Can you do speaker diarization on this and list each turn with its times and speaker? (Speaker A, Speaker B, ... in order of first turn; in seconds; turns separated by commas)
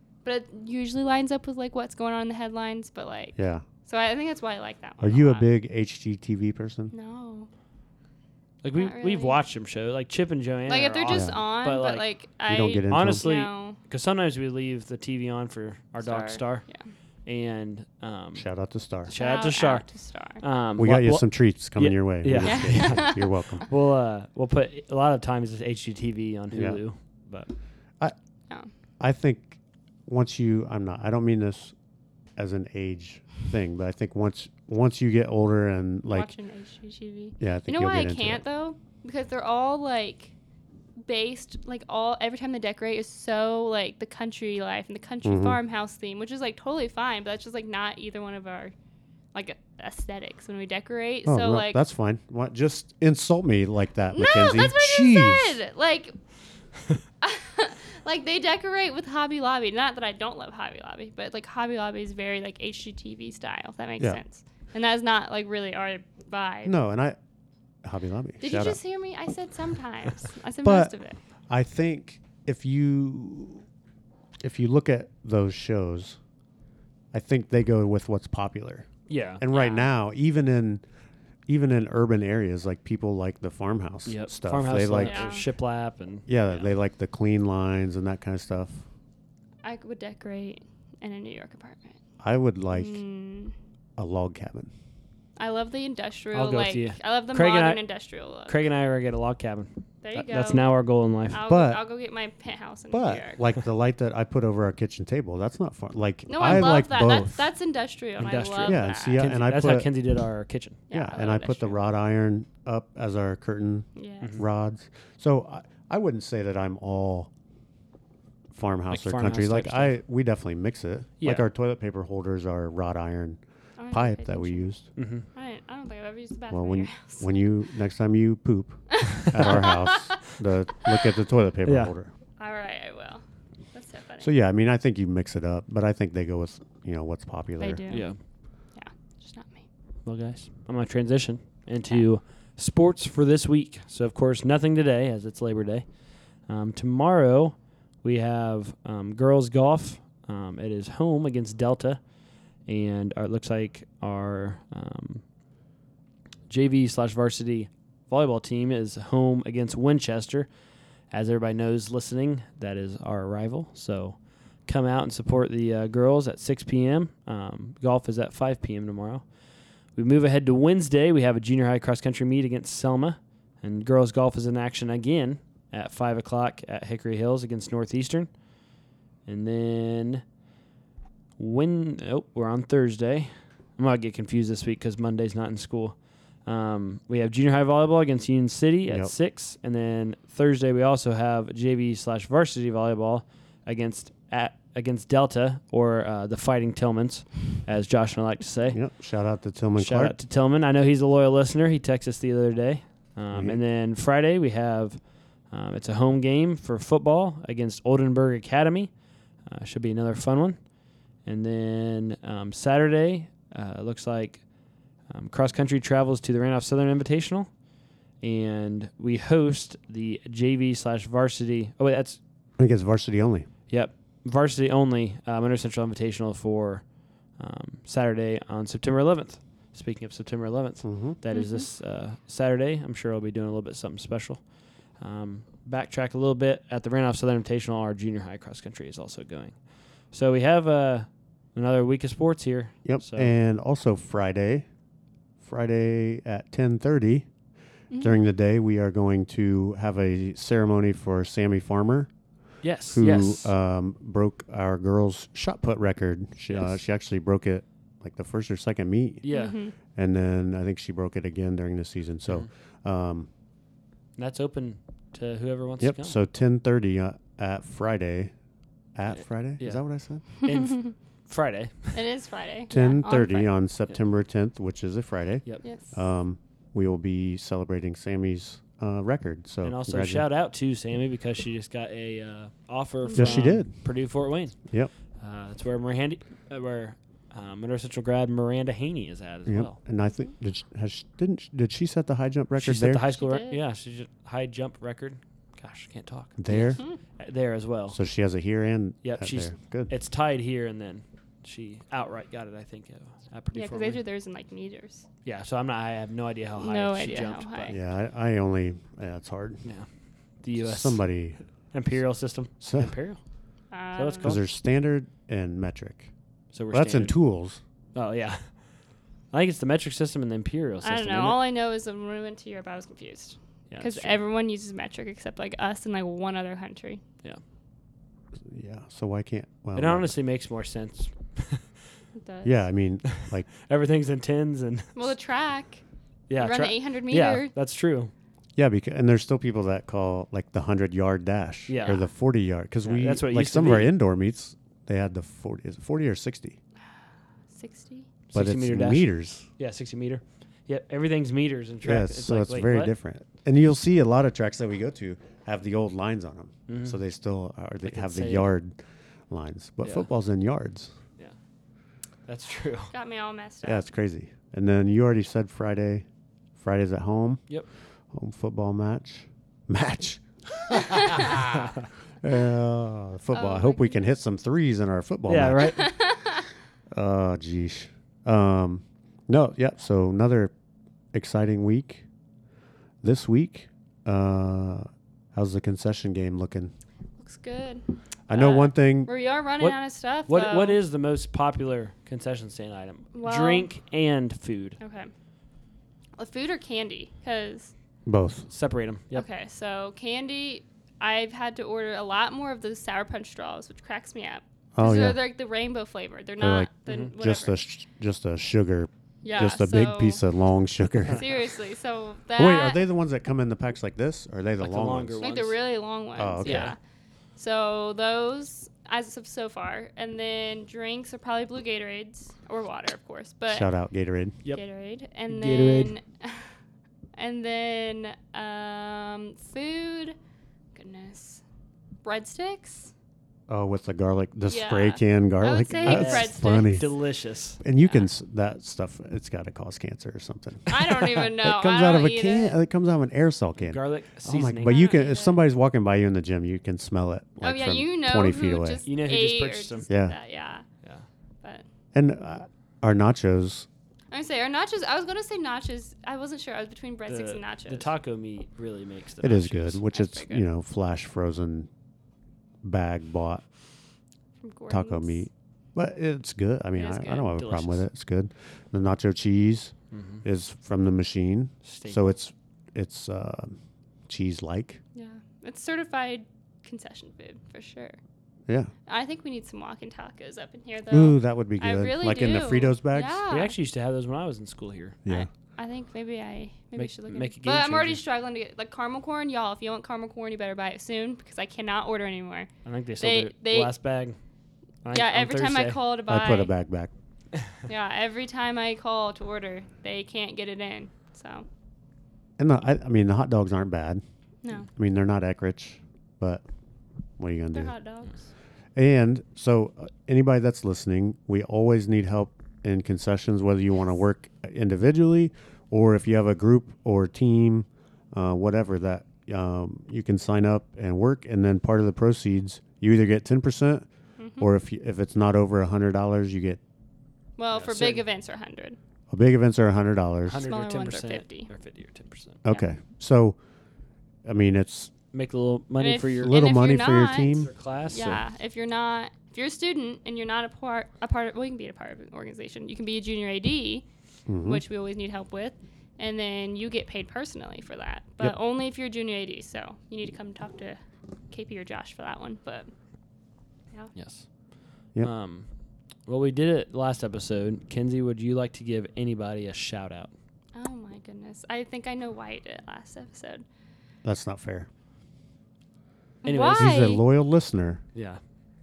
Speaker A: 0.2-5.5, Speaker B: 3.4-3.6, Speaker B: 5.0-6.9, Speaker A: 6.9-7.5, Speaker C: 8.6-12.1, Speaker A: 8.8-9.4, Speaker A: 10.7-13.8, Speaker B: 11.1-11.4, Speaker B: 12.5-13.3, Speaker C: 12.9-16.7, Speaker A: 16.0-16.9, Speaker C: 17.3-18.5, Speaker B: 18.4-19.1, Speaker C: 19.1-19.9, Speaker A: 19.1-20.4, Speaker C: 20.4-27.5, Speaker B: 20.8-23.7, Speaker A: 22.4-23.3, Speaker B: 26.5-26.8, Speaker B: 29.0-31.8, Speaker B: 32.4-36.3, Speaker A: 36.1-40.3, Speaker B: 37.4-38.4, Speaker A: 41.0-48.7, Speaker B: 45.2-45.6, Speaker A: 49.3-51.8, Speaker B: 51.3-55.6, Speaker A: 54.1-56.2, Speaker A: 57.2-66.8, Speaker B: 66.7-67.2, Speaker B: 67.8-68.8, Speaker A: 68.4-71.2, Speaker B: 70.6-70.9, Speaker B: 71.5-73.7, Speaker B: 74.4-76.2, Speaker B: 77.1-80.8, Speaker C: 79.1-79.4, Speaker A: 79.5-79.9, Speaker B: 81.5-85.3, Speaker C: 84.1-86.3, Speaker A: 85.0-85.5, Speaker B: 86.3-88.8, Speaker A: 89.6-92.0, Speaker B: 92.2-93.0, Speaker A: 92.7-93.5, Speaker B: 94.0-94.7, Speaker A: 95.4-98.7, Speaker C: 96.3-97.8, Speaker C: 98.5-101.4, Speaker A: 100.0-100.7, Speaker A: 101.3-103.4, Speaker B: 101.5-101.8, Speaker B: 102.9-107.5, Speaker A: 106.3-109.3, Speaker C: 108.2-110.8, Speaker B: 108.7-109.9, Speaker A: 110.9-111.8, Speaker B: 110.9-117.3, Speaker A: 114.0-114.3, Speaker B: 118.5-124.9, Speaker C: 118.9-120.0, Speaker C: 121.2-121.5, Speaker A: 123.8-124.7, Speaker C: 125.0-125.3, Speaker A: 125.3-127.4, Speaker B: 126.5-132.1, Speaker A: 128.9-129.9, Speaker C: 131.7-131.9, Speaker A: 132.4-134.3, Speaker B: 134.2-137.8, Speaker A: 137.6-138.1, Speaker C: 137.9-138.2, Speaker A: 138.8-139.7, Speaker C: 140.1-145.9, Speaker C: 146.5-152.0, Speaker C: 152.7-155.2, Speaker C: 156.5-160.5, Speaker C: 161.1-169.2, Speaker C: 169.9-178.3, Speaker C: 179.3-180.2, Speaker C: 181.4-198.8, Speaker B: 188.9-189.1, Speaker B: 198.7-200.2, Speaker C: 199.8-208.9, Speaker B: 203.3-203.6, Speaker C: 209.5-210.6, Speaker C: 211.2-214.4, Speaker C: 215.1-217.5, Speaker C: 218.2-222.2, Speaker B: 222.6-223.5, Speaker C: 223.7-226.8, Speaker C: 227.4-234.4, Speaker B: 230.8-231.2, Speaker A: 231.3-231.7, Speaker C: 235.0-239.6, Speaker C: 240.1-243.3, Speaker B: 242.8-244.7, Speaker B: 245.4-247.3, Speaker A: 247.9-248.2, Speaker B: 248.0-252.1, Speaker C: 252.6-253.5, Speaker B: 252.9-259.2, Speaker C: 256.5-256.8, Speaker C: 259.2-259.6, Speaker A: 259.3-259.8, Speaker B: 259.9-263.3, Speaker C: 264.2-266.2, Speaker B: 265.8-268.3, Speaker B: 268.9-270.2, Speaker C: 270.3-272.0, Speaker A: 270.4-270.9, Speaker A: 271.9-273.5, Speaker B: 272.7-280.3, Speaker A: 275.6-276.0, Speaker C: 279.6-284.6, Speaker A: 283.1-283.6, Speaker B: 283.1-283.8, Speaker C: 285.2-289.8, Speaker B: 289.5-293.0, Speaker C: 292.6-298.0, Speaker A: 293.1-293.6, Speaker B: 296.4-296.8, Speaker B: 297.9-299.9, Speaker C: 299.0-304.0, Speaker A: 303.5-305.1, Speaker C: 305.2-307.8, Speaker A: 306.6-307.8, Speaker B: 307.7-309.6, Speaker C: 310.4-311.1, Speaker B: 310.6-311.4, Speaker C: 311.7-313.2, Speaker B: 312.6-312.9, Speaker A: 313.7-314.4, Speaker C: 313.9-314.5, Speaker B: 314.2-316.1, Speaker C: 316.5-317.1, Speaker B: 316.7-317.6, Speaker C: 317.9-318.5, Speaker C: 319.3-321.4, Speaker A: 320.8-327.0, Speaker C: 323.7-324.1, Speaker B: 328.4-330.1, Speaker C: 329.8-331.6, Speaker A: 332.1-332.6, Speaker B: 332.4-333.5, Speaker C: 333.1-335.1, Speaker A: 334.9-335.8, Speaker C: 336.3-338.1, Speaker A: 336.4-337.5, Speaker B: 338.6-346.6, Speaker C: 341.7-342.0, Speaker A: 341.8-342.1, Speaker C: 342.8-343.9, Speaker A: 347.5-348.1, Speaker C: 348.3-352.9, Speaker B: 348.3-349.5, Speaker B: 351.8-358.8, Speaker C: 356.7-357.0, Speaker C: 357.8-358.5, Speaker B: 359.3-360.9, Speaker C: 359.8-360.1, Speaker C: 362.3-362.9, Speaker A: 362.9-363.8, Speaker B: 363.6-366.1, Speaker B: 366.6-367.4, Speaker B: 368.1-375.9, Speaker C: 371.5-371.8, Speaker A: 373.3-374.1, Speaker C: 375.3-375.9, Speaker A: 375.6-376.4, Speaker B: 376.9-380.5, Speaker B: 381.1-382.1, Speaker B: 383.0-386.7, Speaker A: 387.2-390.8, Speaker B: 388.3-389.1, Speaker C: 389.6-394.8, Speaker A: 393.1-393.7, Speaker A: 394.8-395.1, Speaker A: 396.2-397.7, Speaker B: 398.1-398.5, Speaker C: 398.5-399.3, Speaker A: 399.1-407.6, Speaker B: 404.8-405.2, Speaker B: 406.4-411.2, Speaker A: 409.2-410.2, Speaker A: 411.1-412.8, Speaker B: 412.4-415.2, Speaker C: 414.6-415.6, Speaker A: 415.2-416.8, Speaker B: 416.2-416.7, Speaker C: 416.4-416.7, Speaker A: 417.4-423.7, Speaker B: 423.5-424.4, Speaker A: 424.5-426.4, Speaker C: 425.3-425.9, Speaker A: 427.2-430.2, Speaker A: 430.8-431.4, Speaker A: 432.0-432.9, Speaker B: 433.5-436.9, Speaker A: 434.5-436.8, Speaker C: 435.8-437.6, Speaker B: 437.6-448.8, Speaker A: 440.7-442.6, Speaker C: 443.6-444.9, Speaker A: 444.6-445.5, Speaker A: 447.4-450.7, Speaker C: 448.9-449.9, Speaker B: 449.9-450.2, Speaker B: 451.9-453.7, Speaker A: 454.1-457.9, Speaker C: 457.1-459.8, Speaker B: 459.2-461.7, Speaker A: 459.9-460.4, Speaker B: 462.6-463.4, Speaker A: 464.4-465.2, Speaker B: 464.7-474.8, Speaker A: 466.8-467.3, Speaker C: 467.3-467.8, Speaker C: 469.9-470.2, Speaker C: 471.6-472.1, Speaker A: 474.9-478.0, Speaker A: 478.9-483.6, Speaker B: 480.9-483.2, Speaker C: 483.3-485.0, Speaker A: 485.1-493.7, Speaker C: 486.8-488.0, Speaker C: 492.6-494.2, Speaker C: 494.8-495.8, Speaker A: 494.9-496.5, Speaker B: 496.1-496.9, Speaker A: 497.7-501.5, Speaker B: 502.4-504.0, Speaker A: 504.4-504.7, Speaker B: 504.7-506.4, Speaker B: 507.2-507.7, Speaker A: 507.5-508.3, Speaker B: 508.8-523.9, Speaker A: 524.2-524.5, Speaker B: 524.4-526.6, Speaker A: 527.4-528.8, Speaker C: 527.5-528.0, Speaker B: 529.1-530.4, Speaker C: 530.3-532.4, Speaker A: 530.4-531.5, Speaker B: 532.4-533.4, Speaker B: 534.2-534.9, Speaker C: 535.1-536.4, Speaker A: 535.8-543.9, Speaker B: 536.2-537.5, Speaker C: 537.3-538.2, Speaker B: 544.3-544.6, Speaker A: 544.4-552.7, Speaker C: 554.0-554.3, Speaker C: 555.0-555.5, Speaker C: 556.1-560.1, Speaker A: 560.5-563.5, Speaker B: 564.0-564.7, Speaker A: 566.2-567.0, Speaker C: 566.3-566.9, Speaker B: 566.4-567.8, Speaker C: 568.0-568.2